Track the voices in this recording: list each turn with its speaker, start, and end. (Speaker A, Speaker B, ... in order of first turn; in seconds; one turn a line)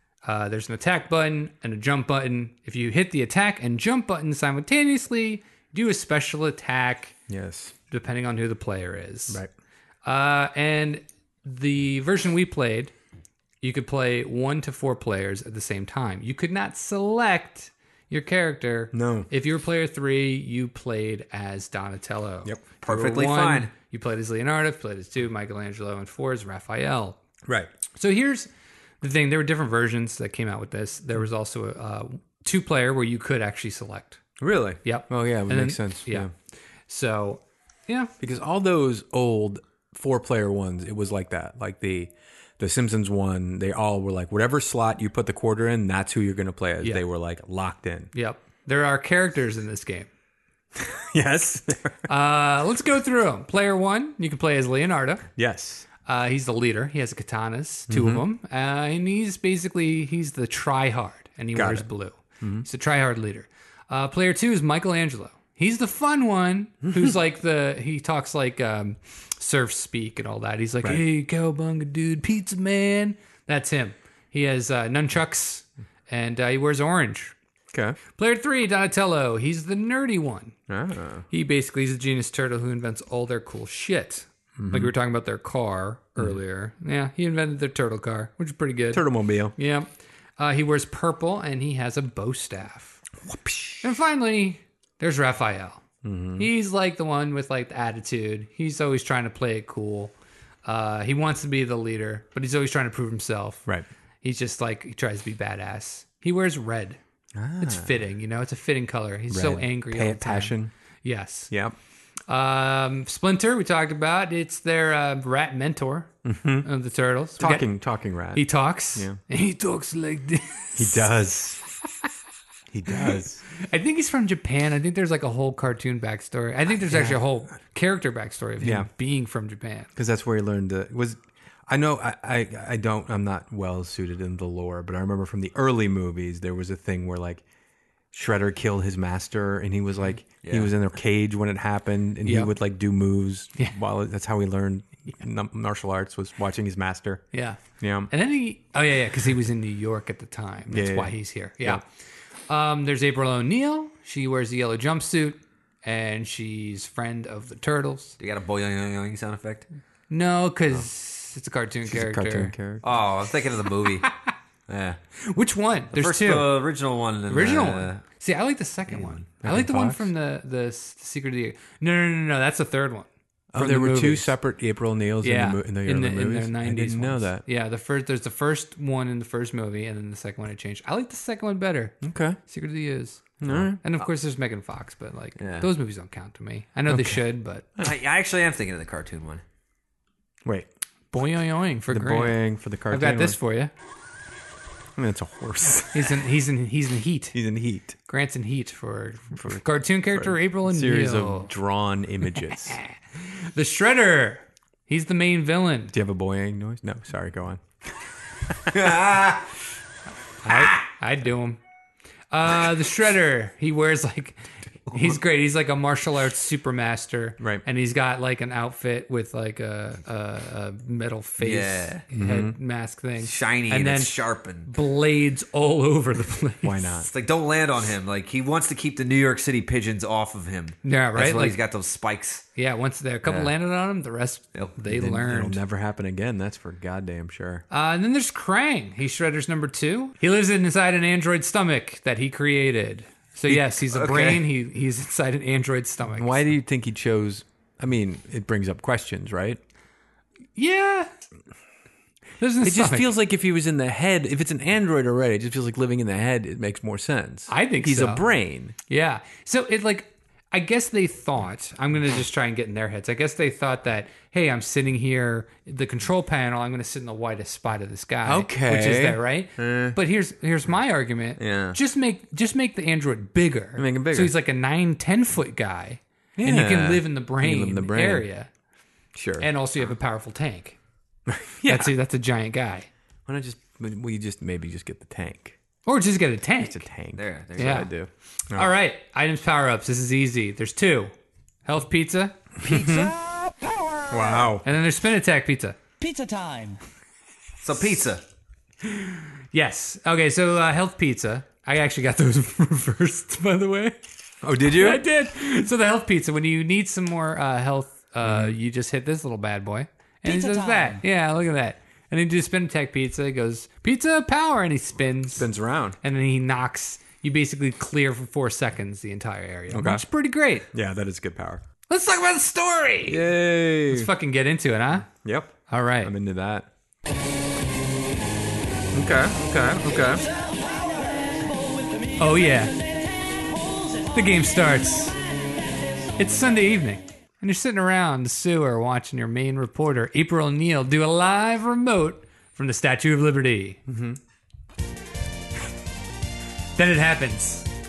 Speaker A: 0.2-7.1
Speaker B: 7.3-7.7
Speaker A: 7.9-9.4
Speaker A: 10.0-12.9
Speaker A: 13.6-27.2
Speaker B: 18.9-19.3
Speaker C: 22.8-23.7
Speaker A: 27.9-28.5
Speaker A: 29.0-34.2
Speaker B: 34.4-36.3
Speaker A: 34.8-36.3
Speaker A: 36.9-38.1
Speaker B: 38.2-48.1
Speaker A: 48.1-50.1
Speaker B: 50.7-52.1
Speaker A: 52.1-55.3
Speaker B: 55.4-55.9
Speaker A: 56.0-77.3
Speaker B: 57.9-58.2
Speaker B: 61.5-61.9
Speaker B: 62.4-62.6
Speaker B: 66.8-67.1
Speaker B: 77.7-78.0
Speaker A: 78.2-80.6
Speaker B: 80.7-81.2
Speaker A: 81.3-89.9
Speaker B: 84.6-84.9
Speaker B: 88.9-89.5
Speaker A: 90.4-93.0
Speaker B: 93.2-93.8
Speaker A: 93.8-95.8
Speaker B: 96.0-96.5
Speaker A: 96.4-100.1
Speaker A: 100.6-103.6
Speaker A: 104.2-107.0
Speaker B: 107.3-107.9
Speaker A: 107.6-111.5
Speaker B: 109.3-110.7
Speaker A: 112.3-116.1
Speaker B: 116.2-116.7
Speaker A: 116.6-117.7
Speaker B: 117.4-119.2
Speaker A: 118.3-121.0
Speaker B: 120.8-121.6
Speaker B: 122.7-123.4
Speaker A: 122.9-129.9
Speaker B: 126.9-127.2
Speaker B: 128.6-128.9
Speaker B: 129.9-137.4
Speaker B: 138.1-147.2
Speaker C: 140.4-140.7
Speaker A: 142.2-142.5
Speaker A: 147.3-151.8
Speaker B: 147.8-148.1
Speaker B: 150.7-151.8
Speaker A: 152.5-158.2
Speaker C: 158.2-159.7
Speaker A: 160.1-162.5
Speaker B: 161.9-162.8
Speaker C: 162.8-164.1
Speaker A: 164.0-164.3
Speaker C: 164.7-165.0
Speaker A: 165.2-166.6
Speaker C: 165.9-168.0
Speaker A: 167.3-174.3
Speaker B: 169.4-170.1
Speaker B: 173.5-177.4
Speaker A: 175.2-187.6
Speaker B: 182.0-182.4
Speaker B: 183.4-183.8
Speaker C: 185.4-185.7
Speaker B: 186.9-187.2
Speaker C: 187.8-189.4
Speaker A: 191.1-192.4
Speaker B: 191.9-193.4
Speaker A: 192.9-193.7
Speaker B: 194.9-196.2
Speaker A: 195.9-197.4
Speaker B: 197.3-198.0
Speaker A: 198.1-201.5
Speaker B: 200.1-202.8
Speaker A: 202.4-205.9
Speaker B: 205.9-207.6
Speaker B: 208.4-208.9
Speaker C: 208.7-209.4
Speaker A: 210.4-211.6
Speaker A: 212.3-226.7
Speaker C: 221.4-222.0
Speaker B: 222.1-222.6
Speaker C: 223.2-224.7
Speaker B: 226.6-227.1
Speaker C: 227.0-232.4
Speaker A: 230.8-231.6
Speaker A: 232.6-235.6
Speaker B: 233.2-233.5
Speaker B: 234.9-237.6
Speaker A: 237.7-246.4
Speaker C: 243.9-244.4
Speaker B: 246.1-249.6
Speaker A: 250.5-251.1
Speaker A: 252.4-253.1
Speaker B: 252.6-258.8
Speaker A: 257.5-258.2
Speaker A: 258.9-278.5
Speaker B: 268.2-269.9
Speaker C: 271.4-271.7
Speaker B: 273.8-274.3
Speaker B: 276.4-278.2
Speaker B: 279.1-279.5
Speaker A: 279.4-280.8
Speaker B: 281.3-281.9
Speaker A: 281.7-282.9
Speaker B: 283.3-285.6
Speaker A: 285.8-286.9
Speaker B: 286.6-288.7
Speaker C: 287.1-287.9
Speaker A: 287.6-287.9
Speaker A: 288.5-291.1
Speaker A: 291.6-292.4
Speaker B: 292.6-293.1
Speaker D: 292.6-294.5
Speaker B: 294.1-294.6
Speaker A: 294.6-295.8
Speaker D: 296.0-296.8
Speaker C: 297.6-298.2
Speaker A: 298.8-304.0
Speaker B: 304.4-305.0
Speaker A: 304.6-315.5
Speaker B: 308.2-308.6
Speaker D: 310.2-311.0
Speaker B: 315.4-316.0
Speaker A: 316.0-320.7
Speaker B: 319.7-320.0
Speaker B: 320.7-321.6
Speaker A: 321.9-323.2
Speaker B: 323.1-324.1
Speaker A: 323.9-325.1
Speaker B: 325.2-326.7
Speaker A: 325.7-326.1
Speaker B: 328.9-330.3
Speaker D: 330.1-334.2
Speaker A: 332.2-332.7
Speaker A: 334.1-335.2
Speaker A: 336.1-343.8
Speaker B: 343.9-344.2
Speaker A: 346.8-347.7